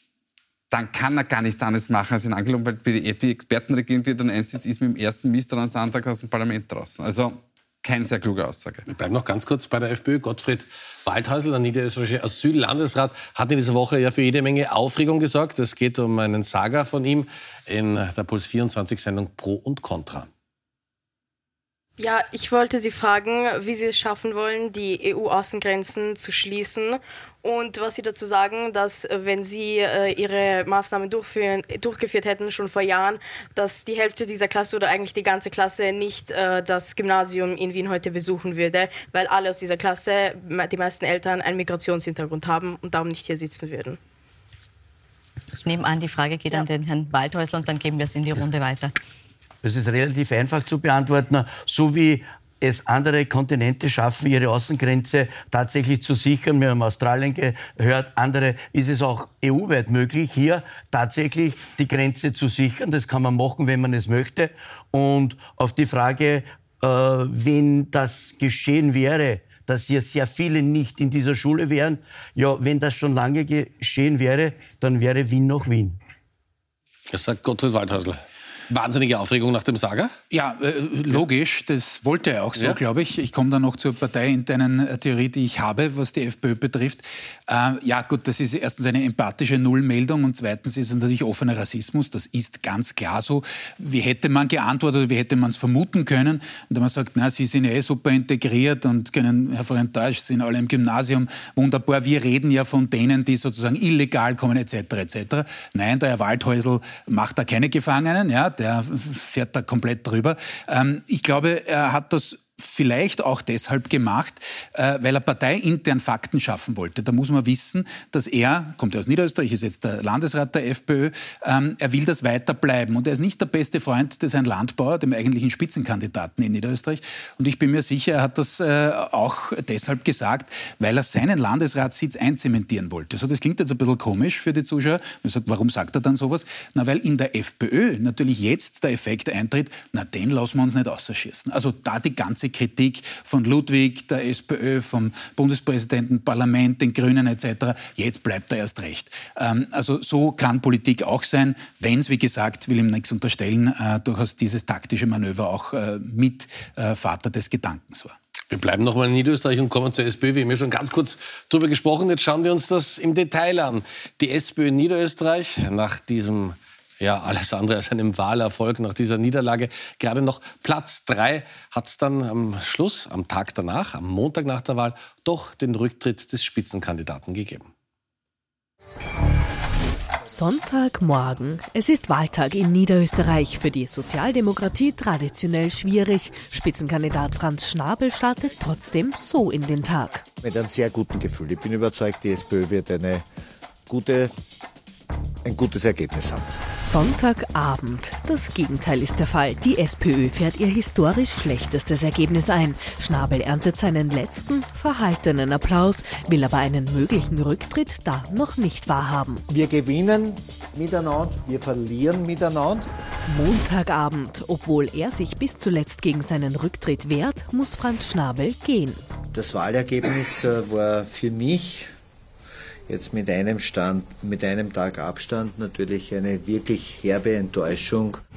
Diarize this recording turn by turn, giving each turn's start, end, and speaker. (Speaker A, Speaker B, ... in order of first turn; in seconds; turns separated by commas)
Speaker A: 0.7-8.9, Speaker B: 8.9-20.3, Speaker C: 22.0-44.0, Speaker D: 45.6-48.9, Speaker E: 49.6-76.0, Speaker B: 77.1-80.1, Speaker F: 80.3-158.2, Speaker B: 158.5-177.7, Speaker G: 180.2-190.2, Speaker H: 190.4-193.3, Speaker H: 193.9-194.3, Speaker H: 195.4-196.4, Speaker G: 196.8-209.4, Speaker H: 209.5-212.9, Speaker G: 213.3-219.0, Speaker H: 219.3-221.9, Speaker H: 222.9-228.2